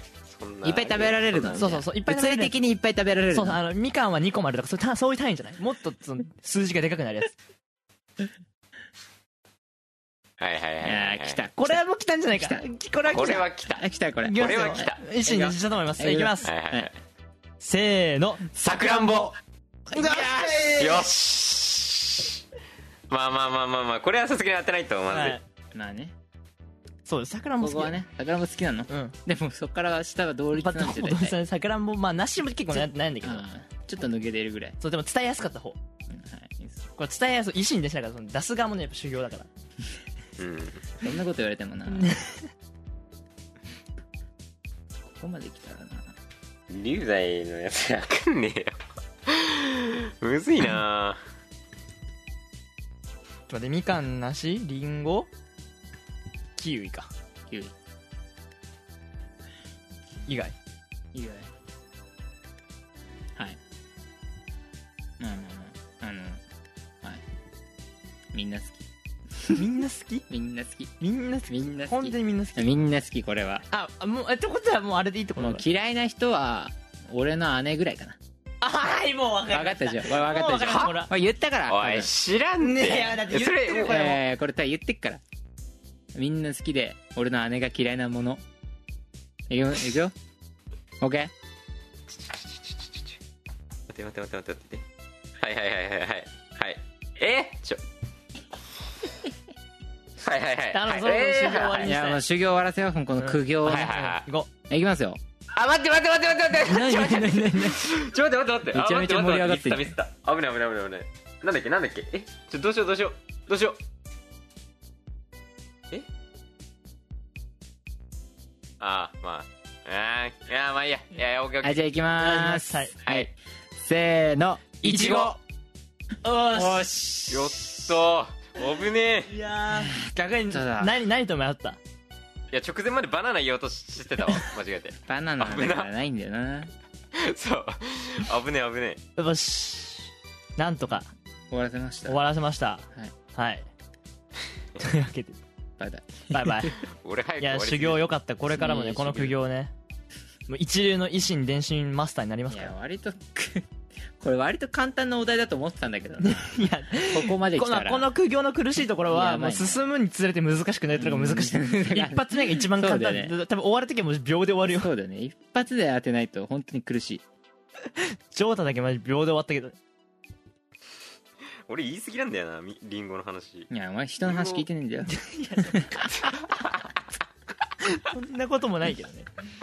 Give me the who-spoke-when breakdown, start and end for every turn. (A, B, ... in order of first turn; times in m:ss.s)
0:00.2-0:01.7 A
0:00.6-0:03.6 B
0:01.5-0:02.6 C
0:03.3-0:07.4 C
0:10.4-0:11.5 A
0:10.8-0:11.8 B
0:11.6-0:13.4 C
0:12.3-0:12.6 B
0:13.1-0:15.0 A
0:13.8-0:16.4 B
0:14.2-0:16.9 C
0:16.4-0:16.9 A
0:17.6-0:19.1 C
0:18.6-0:19.4 A
0:19.9-0:21.1 C
0:20.2-0:20.6 B
0:20.2-0:22.4 A
0:23.1-0:25.4 A
0:25.1-0:25.4 C
0:25.7-0:26.1 B
0:27.0-0:28.0 C
0:27.6-0:31.4 B
0:28.9-0:29.1 C
0:30.5-0:33.4 C
0:32.7-0:34.8 B
0:34.8-0:35.8 C
0:36.1-0:36.9 B
0:37.0-0:39.5 C
0:40.4-0:40.9 A
0:41.0-0:42.2 B
0:41.9-0:42.4 C
0:45.0-0:46.1 B
0:46.7-0:51.2 A
0:53.5-0:55.3 C
0:56.6-0:57.1 C
0:57.5-0:57.7 B
1:00.3-1:00.5 C
1:01.1-1:01.5 B
1:05.2-1:06.4 B
1:08.3-1:08.9 B
1:09.5-1:10.3 C
1:10.3-1:10.9 B
1:11.0-1:12.7 C
1:11.5-1:13.6 B
1:13.7-1:15.6 C
1:15.4-1:18.2 B
1:18.6-1:21.1 C
1:19.5-1:22.1 B
1:21.7-1:24.1 A
1:22.6-1:24.2 C
1:23.8-1:25.2 B
1:26.1-1:28.4 B
1:29.5-1:30.1 B
1:31.0-1:31.3 B
1:32.1-1:33.1 A
1:33.9-1:34.8 A
1:35.4-1:37.8 A
1:40.2-1:41.9 A
1:40.7-1:42.2 C
1:41.8-1:44.0 B
1:43.2-1:44.5 C
1:43.6-1:44.2 A
1:44.7-1:45.2 B
1:45.5-1:53.8 A
1:46.6-1:48.0 B
1:46.9-1:47.2 C
1:48.7-1:49.9 B
1:58.8-2:01.8 A
2:01.6-2:05.4 B
2:02.2-2:03.0 C
2:04.8-2:05.4 C
2:06.2-2:06.9 C
2:06.5-2:07.5 B
2:07.3-2:09.3 A
2:09.3-2:11.8 C
2:09.9-2:10.9 B
2:12.5-2:15.9 A
2:15.1-2:16.7 B
2:17.1-2:19.0 A
2:19.2-2:21.1 C
2:21.5-2:22.2 B
2:22.1-2:23.6 C
2:24.8-2:25.4 C
2:25.8-2:26.7 B
2:26.3-2:26.8 C
2:27.0-2:28.1 A
2:27.4-2:29.7 C
2:28.5-2:29.4 B
2:30.5-2:32.7 C
2:32.5-2:33.6 B
2:34.2-2:38.1 B
2:36.2-2:44.9 C
2:39.1-2:39.8 B
2:40.9-2:43.3 B
2:44.6-2:47.2 B
2:48.0-2:49.8 C
2:51.7-2:53.7 A
2:53.7-2:56.0 B
2:54.3-2:54.6 A
2:55.1-2:56.3 C
2:57.8-2:59.3 C